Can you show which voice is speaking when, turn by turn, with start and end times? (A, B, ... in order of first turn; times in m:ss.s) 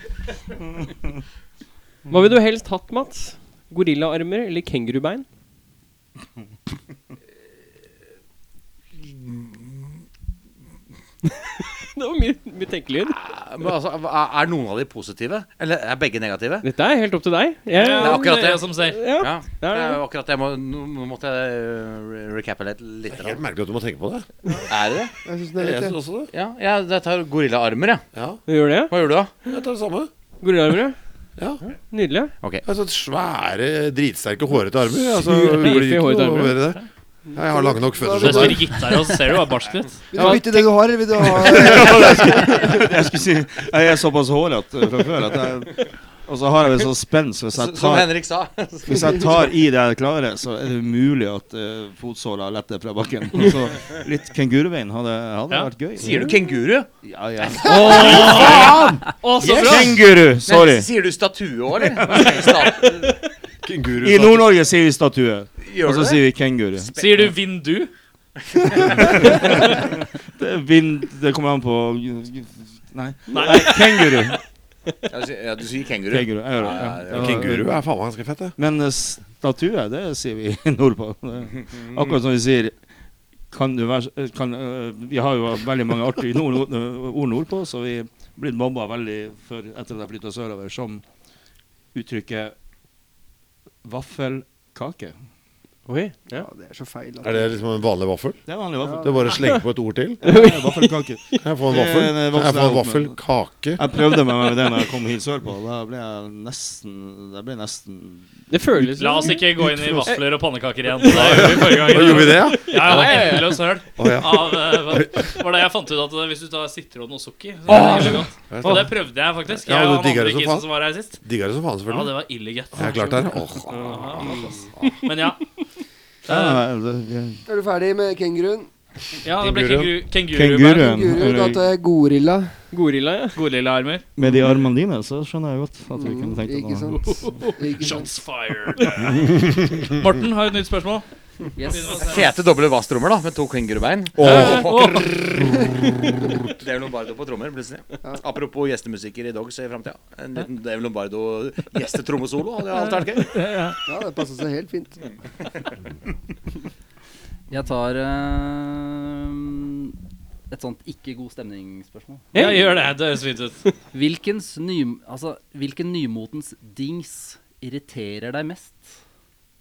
0:02.1-0:05.2 A
0:09.2-0:09.5 B
0:11.9-0:13.2 A
0:13.1-0:16.7 B
0:16.6-0:20.0 A
0:17.7-0:19.1 C
0:18.0-0:23.4 B
0:23.1-0:24.3 D
0:24.7-0:25.1 B
0:25.2-0:26.0 E
0:25.6-0:26.3 D
0:26.3-0:28.0 B
0:28.1-0:28.4 D
0:28.5-0:28.9 A
0:28.9-0:29.3 B
0:29.4-0:30.1 D
0:30.4-0:31.0 A
0:31.9-0:32.3 A
0:32.6-0:36.8 D
0:35.1-0:36.6 A
0:37.3-0:38.8 D
0:37.4-0:39.0 E
0:38.2-0:40.6 C
0:40.1-0:42.7 E
0:40.2-0:40.5 A
0:41.4-0:48.1 F
0:47.5-0:49.5 B
0:48.8-0:56.3 F
0:56.0-0:58.5 B
0:57.0-1:00.9 F
0:57.6-1:00.0 C
0:57.7-0:59.0 D
1:00.4-1:03.2 B
1:01.9-1:02.7 F
1:03.6-1:04.5 D
1:04.0-1:07.0 F
1:05.6-1:06.2 B
1:06.8-1:07.3 B
1:07.0-1:07.9 C
1:08.5-1:09.0 B
1:09.0-1:14.4 F
1:13.3-1:14.0 C
1:15.1-1:17.5 B
1:16.1-1:17.8 F
1:17.1-1:18.5 D
1:18.6-1:22.8 F
1:21.6-1:22.1 B
1:23.5-1:31.0 F
1:31.9-1:32.5 F
1:33.8-1:35.1 F
1:35.9-1:36.4 A
1:36.3-1:37.6 E
1:37.2-1:38.4 D
1:38.4-1:39.4 F
1:38.8-1:39.2 E
1:39.0-1:40.2 D
1:40.2-1:41.4 A
1:40.2-1:43.2 F
1:41.4-1:43.8 D
1:43.8-1:48.3 F
1:48.5-1:49.5 A
1:48.9-2:01.2 C
1:49.6-1:50.1 D
1:51.0-1:53.4 A
1:51.1-1:55.4 D
1:57.7-1:58.9 D
1:59.6-2:00.7 D
2:01.2-2:02.2 D
2:01.9-2:04.4 C
2:02.7-2:05.0 D
2:03.7-2:04.4 A
2:05.0-2:05.5 C
2:06.3-2:07.4 F
2:06.3-2:06.6 C
2:07.4-2:08.7 E
2:09.2-2:10.9 C
2:09.4-2:09.9 D
2:10.3-2:11.7 F
2:10.8-2:12.5 E
2:12.7-2:13.4 A
2:13.4-2:14.0 C
2:14.2-2:17.1 F
2:15.9-2:18.1 E
2:17.0-2:21.0 C
2:21.6-2:22.3 G
2:21.6-2:22.3 C
2:21.8-2:25.4 B
2:24.2-2:24.7 D
2:24.2-2:25.5 C
2:25.4-2:26.5 D
2:26.5-2:33.3 B
2:32.8-2:33.8 C
2:33.9-2:35.0 E
2:37.5-2:40.0 G
2:40.5-2:42.6 G
2:42.3-2:42.7 A
2:42.3-2:43.6 C
2:43.9-2:49.0 G